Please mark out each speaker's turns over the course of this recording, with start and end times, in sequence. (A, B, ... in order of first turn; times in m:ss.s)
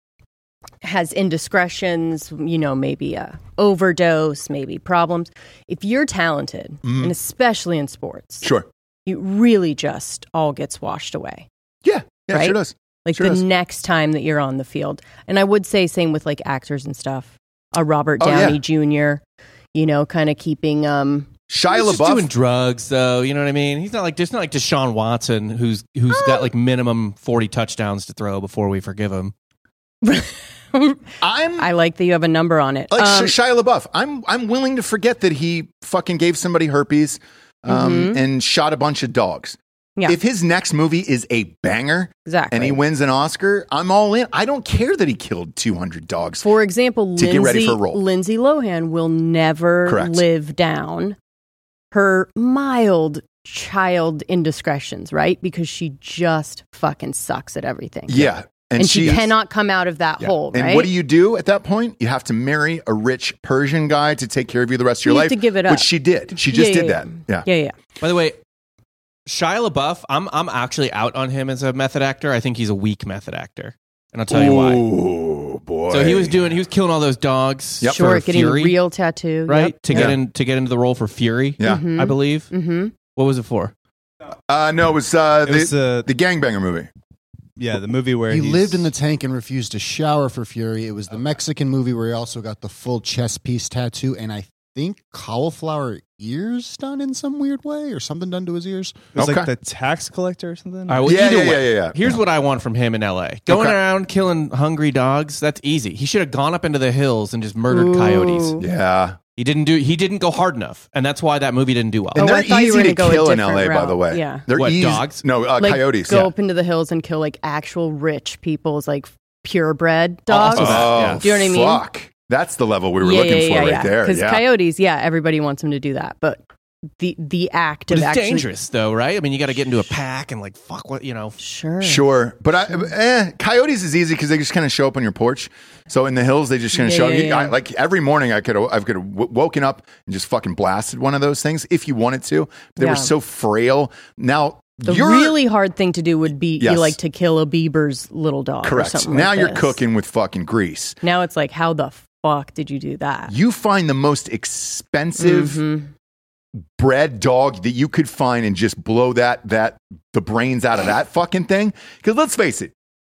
0:00.8-0:08.5 A
0:06.8-0:07.1 B
0:09.1-0:11.5 A
0:11.8-0:13.4 B
0:12.3-0:19.2 A
0:18.2-0:18.6 B
0:19.7-0:21.3 A
0:21.5-0:22.3 B
0:21.7-0:29.3 C
0:26.1-0:26.5 B
0:30.0-0:31.0 A
0:31.2-0:31.7 B
0:31.6-0:33.3 A
0:32.9-0:46.5 B
0:37.7-0:38.2 A
0:42.3-0:42.8 A
0:46.4-0:51.2 A
0:47.2-0:48.0 B
0:49.9-0:50.2 B
0:51.9-1:00.9 A
0:58.1-0:59.3 B
1:00.2-1:07.5 B
1:05.0-1:07.8 A
1:08.0-1:08.4 C
1:09.3-1:14.8 C
1:14.3-1:16.6 B
1:15.9-1:18.8 C
1:17.8-1:18.2 B
1:17.9-1:20.2 A
1:19.5-1:22.5 C
1:21.6-1:21.8 B
1:21.6-1:22.9 A
1:23.1-1:23.7 C
1:24.5-1:26.9 B
1:25.4-1:26.1 D
1:27.6-1:28.9 D
1:28.3-1:38.9 E
1:39.2-1:41.2 D
1:39.2-1:39.5 B
1:40.9-1:48.6 C
1:41.0-1:42.2 B
1:43.5-1:43.8 B
1:47.7-1:48.6 A
1:48.6-1:49.2 B
1:49.4-1:52.2 C
1:52.2-1:54.4 A
1:52.2-1:56.3 B
1:54.5-1:55.2 C
1:55.6-2:01.8 A
2:00.3-2:01.2 C
2:00.5-2:04.4 B
2:03.0-2:06.4 A
2:07.0-2:08.5 A
2:07.9-2:11.4 C
2:11.4-2:12.0 A
2:11.8-2:25.4 B
2:16.7-2:17.6 A
2:22.8-2:23.1 A
2:24.9-2:29.8 A
2:26.6-2:27.0 B
2:28.6-2:31.0 B
2:31.0-2:33.3 A
2:33.3-2:35.6 B
2:35.2-2:35.9 A
2:36.8-2:42.7 B